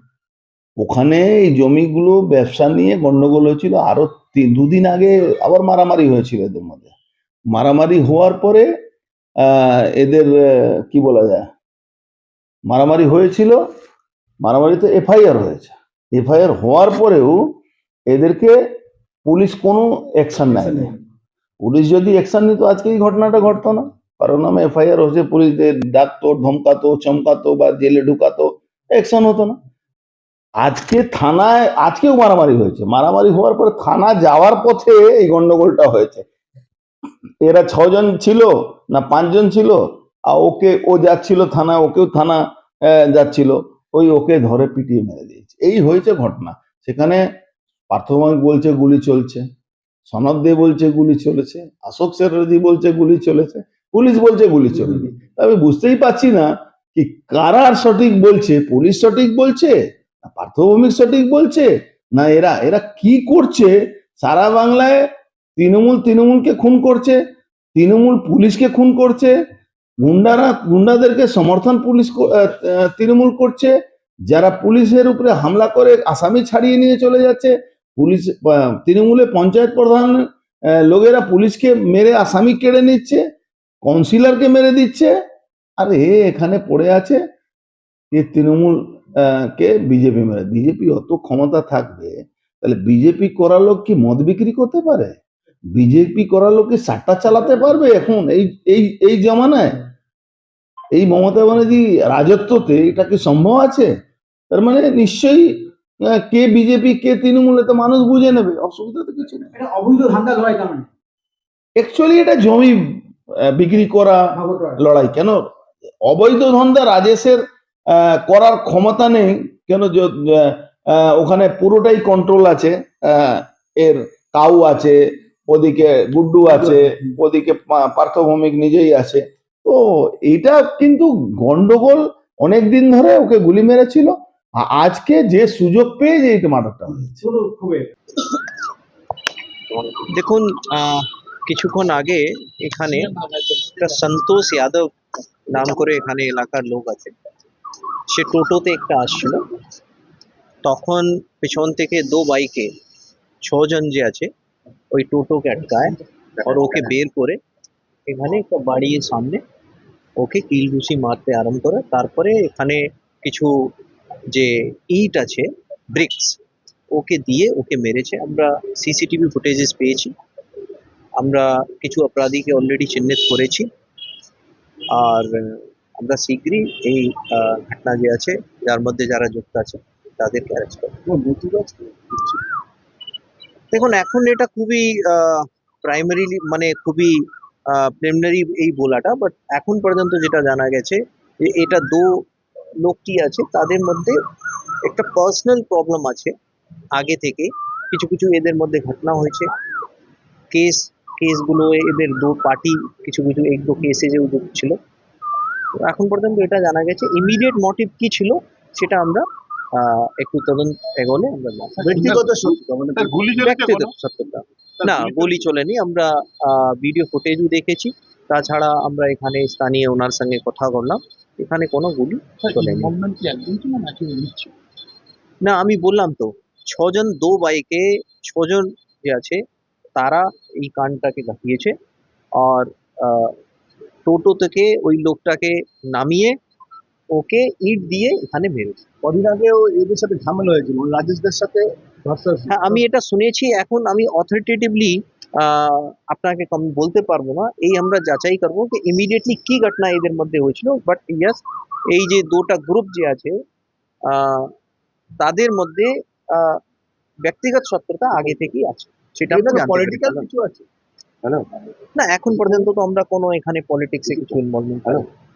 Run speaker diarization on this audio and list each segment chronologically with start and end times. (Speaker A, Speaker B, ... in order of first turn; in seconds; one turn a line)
Speaker A: 0.8-6.9
Speaker A: 7.5-8.7
Speaker A: 9.4-11.5
Speaker A: 12.7-13.6
Speaker A: 14.4-17.6
Speaker A: 18.1-18.6
Speaker A: 19.2-20.9
Speaker A: 21.6-29.6
Speaker A: 30.6-36.3
Speaker A: 37.4-47.2
Speaker A: 47.9-49.5
Speaker A: 50.1-65.0
Speaker A: 65.6-67.2
Speaker A: 67.7-69.3
Speaker A: 70.0-73.7
Speaker A: 74.3-83.2
Speaker A: 83.8-85.1
Speaker A: 85.8-87.2
Speaker A: 88.1-95.2
Speaker A: 95.7-99.8
Speaker A: 100.9-103.9
Speaker A: 104.5-109.5
Speaker B: 109.5-110.9
Speaker A: 111.8-114.3
Speaker B: 114.3-114.8
Speaker A: 114.8-115.5
Speaker A: 116.0-117.4
Speaker A: 117.9-134.1
Speaker A: 134.6-137.2
Speaker B: 137.2-137.9
Speaker C: 139.7-143.1
Speaker C: 143.8-144.8
Speaker C: 145.5-147.1
Speaker C: 148.1-149.4
Speaker C: 150.6-152.7
Speaker C: 153.4-154.3
Speaker C: 154.9-157.4
Speaker C: 158.1-159.4
Speaker C: 160.2-163.5
Speaker C: 164.3-166.4
Speaker C: 166.9-170.1
Speaker C: 171.2-173.7
Speaker C: 174.9-180.9
Speaker D: 181.1-182.4
Speaker C: 183.7-187.1
Speaker C: 187.7-192.1
Speaker C: 192.8-194.2
Speaker C: 194.8-196.3
Speaker C: 196.9-199.5
Speaker C: 200.5-204.8
Speaker C: 205.8-209.2
Speaker C: 209.7-212.4
Speaker D: 211.8-213.9
Speaker C: 213.3-223.0
Speaker D: 214.8-215.5
Speaker D: 222.4-224.5
Speaker C: 225.4-229.4
Speaker C: 230.0-231.7
Speaker C: 232.4-233.3
Speaker C: 234.1-236.3
Speaker C: 237.1-238.8
Speaker D: 239.0-242.8
Speaker C: 242.5-251.4
Speaker C: 251.9-253.3
Speaker C: 254.1-254.5
Speaker C: 255.2-256.6
Speaker C: 257.2-260.3
Speaker D: 259.3-260.6
Speaker C: 261.9-265.1